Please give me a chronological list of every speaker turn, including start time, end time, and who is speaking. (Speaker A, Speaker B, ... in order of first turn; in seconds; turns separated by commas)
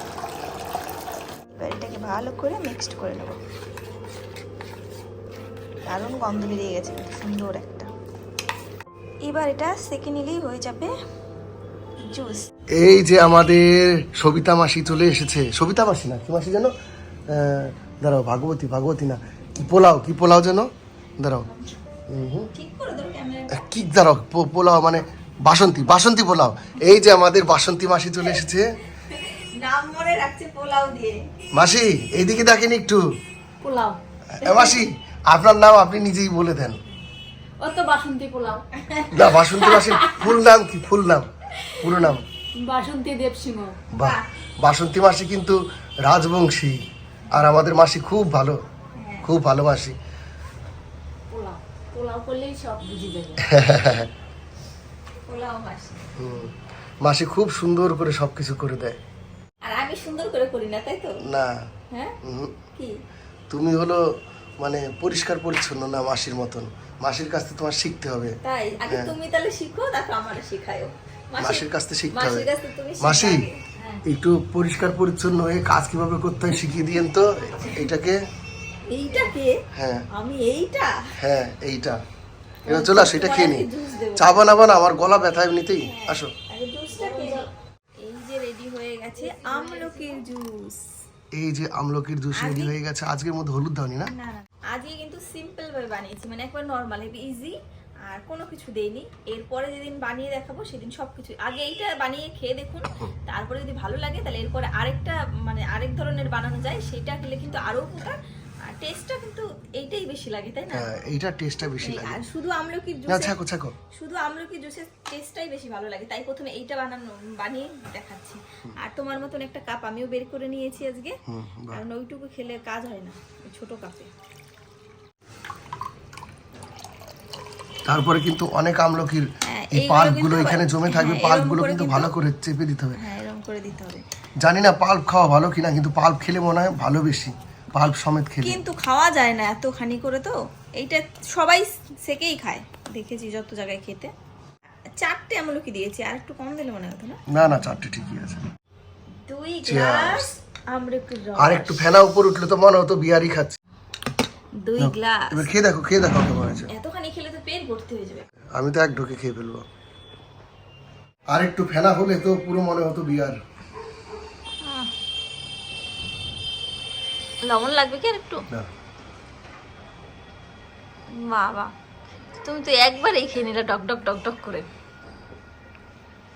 Speaker A: 1.5-3.4, Speaker A: 5.9-7.9, Speaker A: 9.2-10.9, Speaker A: 12.1-12.4, Speaker B: 12.8-16.7, Speaker B: 17.3-21.5, Speaker A: 21.5-21.8, Speaker B: 22.1-22.5, Speaker A: 22.5-23.7, Speaker B: 23.5-28.7, Speaker A: 29.1-31.2, Speaker B: 31.5-33.0, Speaker C: 33.6-34.0, Speaker B: 34.4-36.8, Speaker A: 34.4-34.8, Speaker C: 37.6-38.6, Speaker A: 38.7-40.3, Speaker B: 39.1-41.3, Speaker A: 41.5-42.1, Speaker B: 41.8-42.2, Speaker C: 42.6-43.8, Speaker B: 43.9-46.8, Speaker A: 44.0-44.3, Speaker B: 47.3-48.6, Speaker A: 49.0-49.3, Speaker B: 49.2-50.0, Speaker C: 51.3-53.5, Speaker B: 53.4-54.1, Speaker A: 55.2-56.1, Speaker B: 56.2-56.5, Speaker B: 57.0-59.0, Speaker A: 59.6-61.2, Speaker B: 61.3-61.6, Speaker A: 61.9-62.2, Speaker B: 62.2-62.5, Speaker B: 63.5-64.0, Speaker B: 64.6-68.4, Speaker A: 68.4-74.0, Speaker B: 68.9-69.1, Speaker B: 71.4-72.5, Speaker B: 73.0-73.5, Speaker B: 74.0-78.2, Speaker A: 78.9-79.6, Speaker B: 79.7-80.1, Speaker A: 80.1-81.0, Speaker B: 81.2-82.0, Speaker A: 82.7-84.7, Speaker B: 82.7-86.3, Speaker A: 85.8-87.5, Speaker C: 87.0-87.4, Speaker A: 88.0-90.8, Speaker B: 91.4-94.1, Speaker A: 92.3-92.8, Speaker A: 94.1-110.9, Speaker B: 110.7-112.2, Speaker A: 111.8-113.3, Speaker B: 113.1-113.8, Speaker A: 113.9-124.1, Speaker B: 121.3-121.8, Speaker B: 127.9-133.0, Speaker A: 129.4-132.1, Speaker A: 132.9-134.0, Speaker B: 134.4-138.6, Speaker A: 138.4-144.1, Speaker A: 144.9-147.3, Speaker B: 147.3-148.4, Speaker A: 149.3-151.9, Speaker B: 149.7-150.3, Speaker B: 151.4-153.6, Speaker A: 154.6-155.6, Speaker B: 154.8-156.7, Speaker A: 156.6-158.3, Speaker B: 158.6-159.7, Speaker B: 161.3-163.4, Speaker A: 164.6-164.9, Speaker A: 167.4-168.4, Speaker A: 171.1-171.7, Speaker A: 172.4-174.7